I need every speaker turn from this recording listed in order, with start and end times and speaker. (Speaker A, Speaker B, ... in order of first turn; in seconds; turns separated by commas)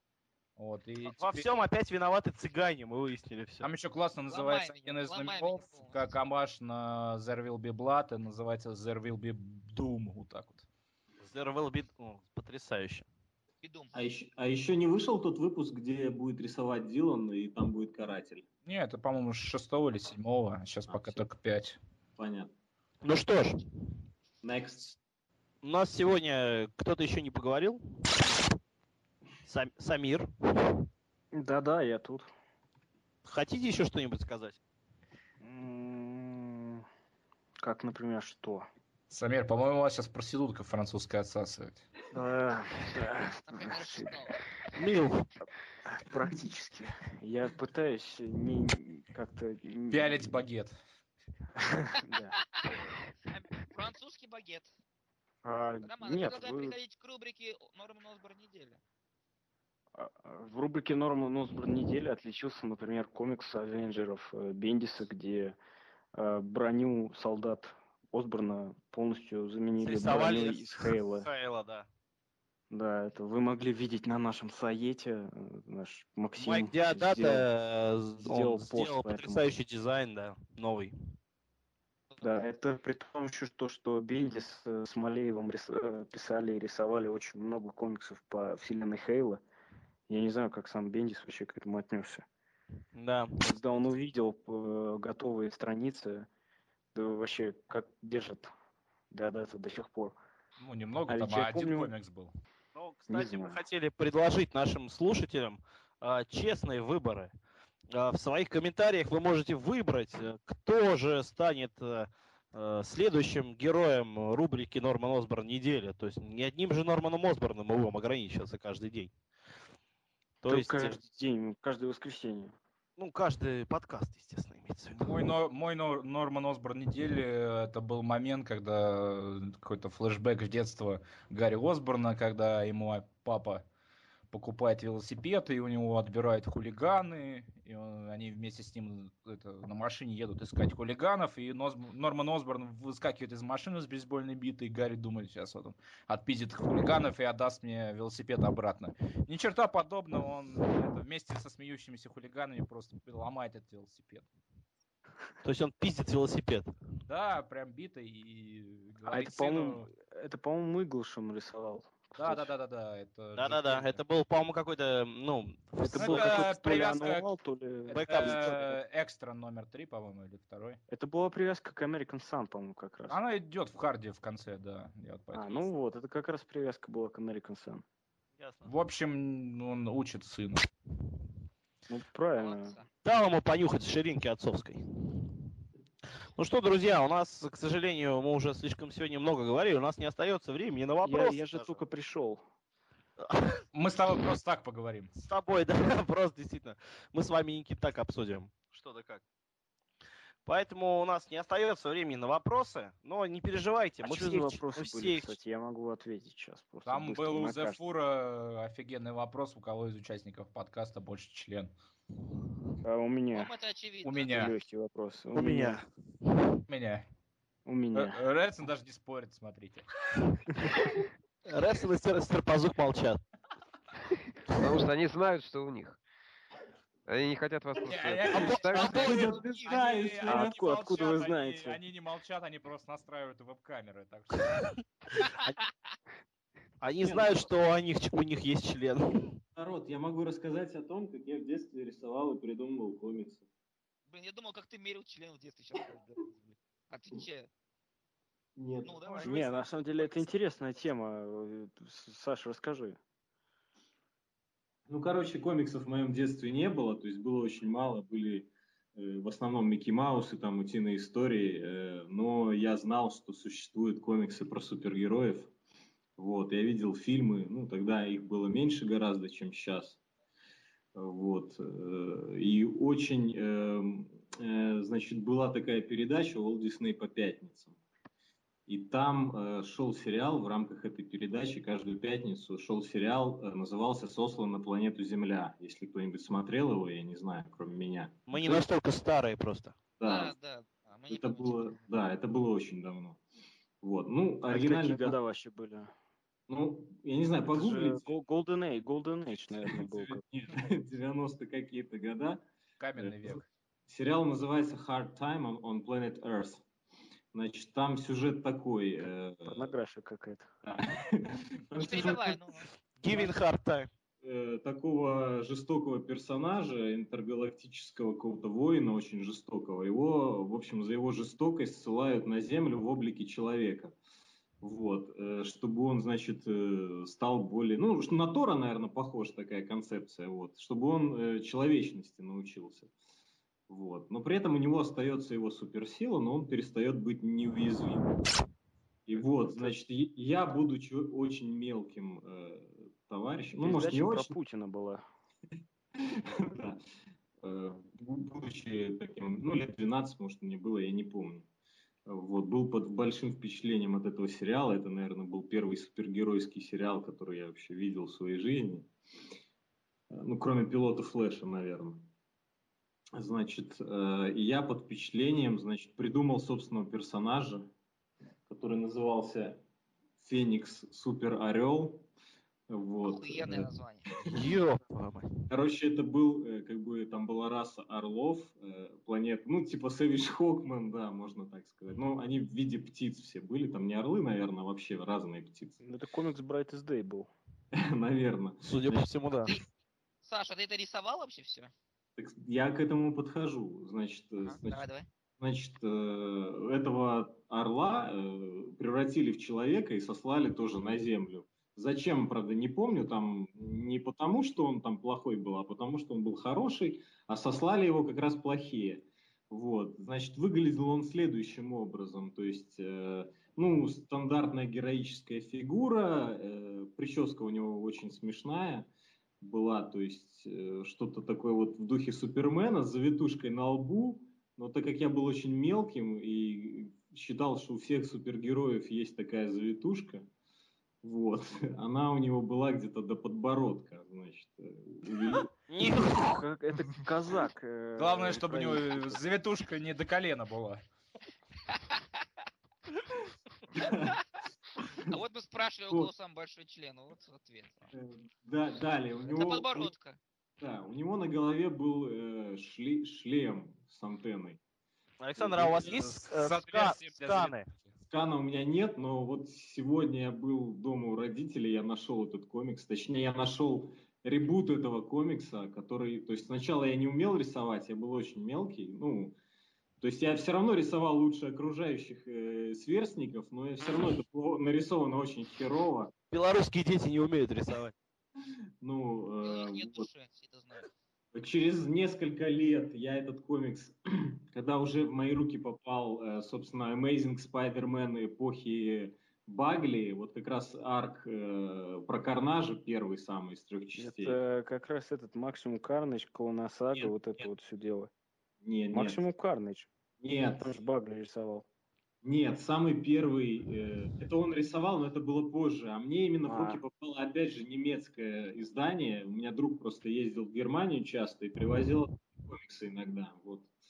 Speaker A: 0.6-1.5, Speaker B: 1.0-3.7, Speaker A: 3.6-10.6, Speaker C: 4.3-6.1, Speaker B: 11.2-13.1, Speaker C: 13.6-13.9, Speaker D: 13.9-18.4, Speaker A: 18.6-21.8, Speaker D: 20.9-21.2, Speaker D: 22.2-22.5, Speaker B: 23.0-23.6, Speaker D: 24.4-25.0, Speaker B: 25.6-27.8, Speaker B: 29.4-30.9, Speaker E: 31.3-32.3, Speaker B: 33.2-34.6, Speaker E: 35.4-36.8, Speaker E: 37.6-38.7, Speaker A: 39.1-41.8, Speaker E: 42.1-44.2, Speaker C: 43.5-44.4, Speaker B: 44.8-45.3, Speaker E: 45.9-50.4, Speaker A: 49.9-50.8, Speaker E: 51.6-52.4, Speaker C: 53.3-54.7, Speaker E: 55.4-56.7, Speaker C: 55.8-58.8, Speaker E: 60.0-65.5, Speaker E: 66.1-71.3, Speaker B: 69.8-71.9, Speaker E: 72.7-77.5, Speaker B: 76.4-80.9, Speaker E: 78.2-79.5, Speaker E: 82.2-89.4, Speaker E: 90.1-92.2, Speaker B: 92.9-93.4, Speaker E: 93.4-96.3, Speaker E: 96.9-98.5, Speaker E: 99.1-100.2, Speaker A: 100.6-102.3, Speaker E: 101.1-101.9, Speaker B: 102.7-107.3, Speaker E: 103.1-103.6, Speaker B: 107.9-119.1, Speaker B: 120.4-121.0, Speaker E: 120.4-122.5, Speaker B: 123.0-125.2, Speaker A: 124.9-133.6, Speaker A: 134.3-154.2, Speaker B: 155.4-156.7, Speaker A: 157.1-159.9, Speaker E: 159.0-162.5, Speaker A: 162.1-164.0, Speaker B: 163.3-166.6, Speaker E: 165.8-168.7, Speaker A: 165.8-167.3, Speaker A: 167.9-170.8, Speaker B: 167.9-168.7, Speaker E: 170.9-173.2, Speaker A: 173.1-175.7, Speaker E: 175.3-177.8, Speaker B: 178.4-178.7, Speaker A: 178.6-180.7, Speaker E: 181.9-182.8, Speaker C: 182.4-182.8, Speaker B: 183.0-184.8, Speaker B: 186.3-191.8, Speaker E: 191.0-192.4, Speaker B: 193.2-193.6, Speaker A: 193.7-195.1, Speaker B: 195.2-199.2, Speaker B: 200.4-205.3, Speaker E: 204.0-207.8, Speaker A: 206.8-211.7, Speaker E: 212.8-213.5, Speaker C: 213.3-214.5, Speaker A: 214.0-214.5, Speaker E: 214.3-215.8, Speaker B: 215.3-216.5, Speaker A: 216.7-217.0, Speaker E: 217.7-218.2, Speaker A: 217.9-219.8, Speaker B: 221.4-223.2, Speaker F: 224.5-226.0, Speaker F: 227.1-229.1, Speaker A: 227.8-234.7, Speaker D: 228.3-230.6, Speaker B: 228.3-229.3, Speaker E: 228.8-231.8, Speaker B: 235.2-235.6, Speaker B: 236.8-239.4, Speaker D: 237.0-237.4, Speaker D: 239.5-243.4, Speaker C: 244.1-247.5, Speaker D: 248.6-249.3, Speaker C: 248.8-250.4, Speaker E: 249.2-253.0, Speaker D: 254.9-265.5, Speaker D: 266.2-270.0, Speaker D: 270.9-277.8, Speaker D: 278.7-288.6, Speaker B: 288.3-289.7, Speaker D: 290.0-290.3, Speaker C: 290.0-291.9, Speaker D: 291.1-293.2, Speaker D: 293.8-295.1, Speaker E: 294.5-295.9, Speaker D: 296.5-298.1, Speaker E: 297.5-300.2, Speaker D: 299.6-302.4, Speaker A: 302.8-303.5, Speaker D: 302.9-303.4, Speaker D: 303.9-306.6, Speaker D: 307.3-309.7, Speaker E: 309.4-310.5, Speaker D: 310.6-312.4, Speaker C: 311.8-313.3, Speaker B: 313.0-313.9, Speaker D: 314.2-323.9, Speaker D: 324.6-332.9, Speaker D: 333.7-338.2, Speaker D: 339.1-344.3, Speaker E: 339.4-339.7, Speaker E: 343.6-345.0, Speaker D: 345.9-346.8, Speaker D: 347.4-351.5, Speaker D: 352.1-358.9, Speaker D: 360.1-362.1, Speaker D: 363.1-367.7, Speaker D: 368.5-369.6, Speaker D: 370.2-372.1, Speaker D: 372.7-374.4, Speaker C: 373.0-374.1, Speaker B: 374.3-375.3, Speaker D: 375.5-385.8, Speaker E: 385.8-387.3, Speaker D: 387.7-389.0, Speaker B: 388.6-389.5, Speaker C: 390.2-391.7, Speaker D: 392.2-394.8, Speaker C: 394.4-395.1, Speaker D: 395.4-418.9, Speaker D: 419.4-430.3, Speaker D: 431.0-435.5, Speaker B: 435.7-436.3, Speaker E: 435.8-439.2, Speaker A: 437.9-440.8, Speaker D: 443.7-444.2, Speaker C: 445.1-447.9, Speaker D: 447.9-449.9, Speaker C: 449.3-450.2, Speaker D: 450.6-454.6, Speaker B: 455.2-457.7, Speaker D: 455.4-456.1, Speaker A: 455.8-458.0, Speaker D: 458.1-469.4, Speaker D: 470.0-476.1, Speaker B: 476.3-477.9, Speaker D: 478.8-480.1, Speaker C: 479.4-480.9, Speaker D: 481.3-494.4, Speaker E: 493.9-498.1, Speaker D: 498.6-499.2, Speaker E: 498.9-499.9, Speaker D: 500.2-500.7, Speaker E: 500.6-501.6, Speaker D: 502.2-513.7, Speaker E: 506.4-506.8